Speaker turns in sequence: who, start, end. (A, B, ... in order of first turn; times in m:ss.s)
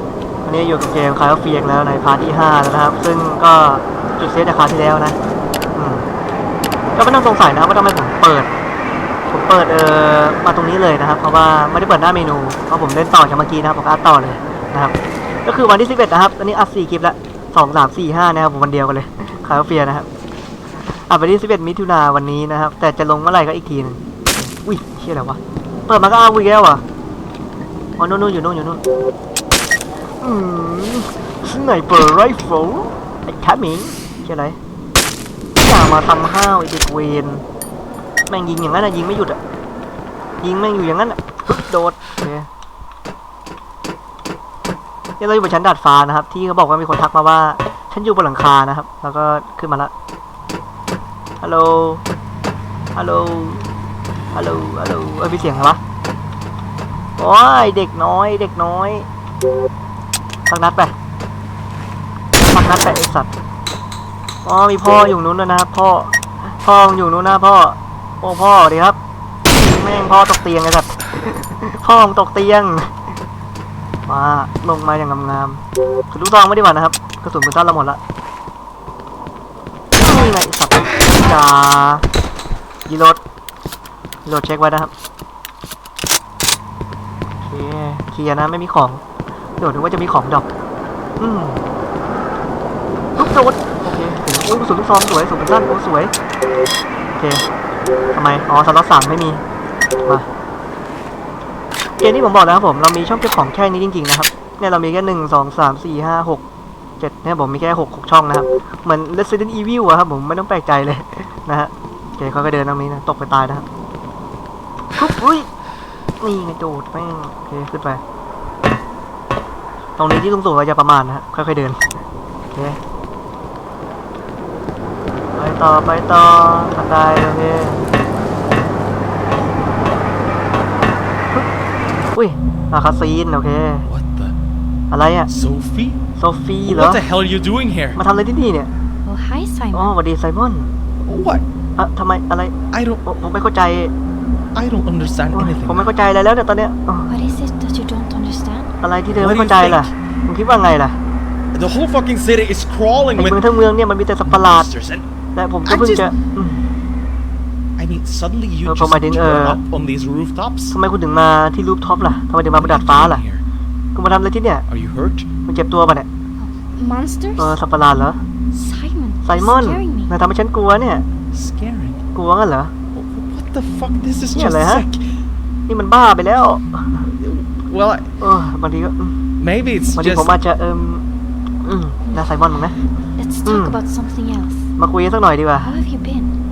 0:00.4-0:05.2 A
0:05.7-0:06.1 A
0:06.9-0:08.5 A
0:09.3-0:20.1 A
0:21.1-0:26.8 A
0:28.0-0:28.8 A
0:30.2-0:34.6 A
0:35.6-0:37.4 A
0:38.3-0:39.4 A
0:40.4-0:42.5 A
0:45.2-0:49.9 A
0:51.4-0:52.0 A
0:52.9-0:53.7 A
0:54.3-0:55.8 A
0:57.2-0:59.1 A
1:00.5-1:00.9 A
1:02.4-1:03.3 A
1:04.4-1:09.0 A
1:09.5-1:13.0 A
1:14.0-1:18.0 A
1:20.0-1:22.0 A
1:22.8-1:23.2 A
1:24.2-1:24.9 A
1:27.4-1:29.0 A
1:29.6-1:30.4 A
1:31.2-1:31.6 A
1:33.2-1:36.1 A
1:37.1-1:37.4 A
1:38.1-1:39.4 A
1:42.0-1:46.4 A
1:47.0-1:53.6 A
1:55.0-1:55.5 A
1:56.2-1:58.0 A
2:00.0-2:01.8 A
2:02.5-2:02.8 A
2:05.3-2:07.8 A
2:12.1-2:13.9 A
2:13.8-2:14.3 B
2:14.9-2:15.3 A
2:15.3-2:16.0 B
2:16.2-2:17.0 A
2:16.6-2:18.0 B
2:18.0-2:18.7 A
2:19.0-2:19.9 C
2:19.7-2:20.7 A
2:21.0-2:21.4 B
2:21.8-2:23.9 A
2:22.7-2:23.0 B
2:24.5-2:25.9 B
2:25.3-2:27.1 A
2:27.1-2:28.7 C
2:28.8-2:31.0 A
2:29.1-2:29.9 B
2:31.5-2:33.4 B
2:33.2-2:34.7 A
2:34.2-2:35.1 B
2:35.3-2:36.6 A
2:35.6-2:36.1 B
2:37.8-2:40.7 B
2:38.6-2:39.6 A
2:40.7-2:43.2 A
2:42.5-2:43.4 B
2:43.9-2:44.6 A
2:44.7-2:45.3 B
2:45.4-2:46.1 A
2:46.4-2:47.6 C
2:47.4-2:48.2 A
2:48.5-2:50.1 C
2:49.2-2:51.0 A
2:51.3-2:52.0 B
2:52.1-2:52.7 A
2:52.9-2:55.2 B
2:54.3-2:54.8 A
2:55.7-2:57.1 A
2:57.0-2:58.1 B
2:58.2-2:59.2 A
2:59.4-3:00.3 B
3:00.0-3:01.0 A
3:01.6-3:02.8 A
3:03.2-3:04.7 C
3:03.4-3:03.8 A
3:04.8-3:05.7 A
3:05.6-3:06.4 C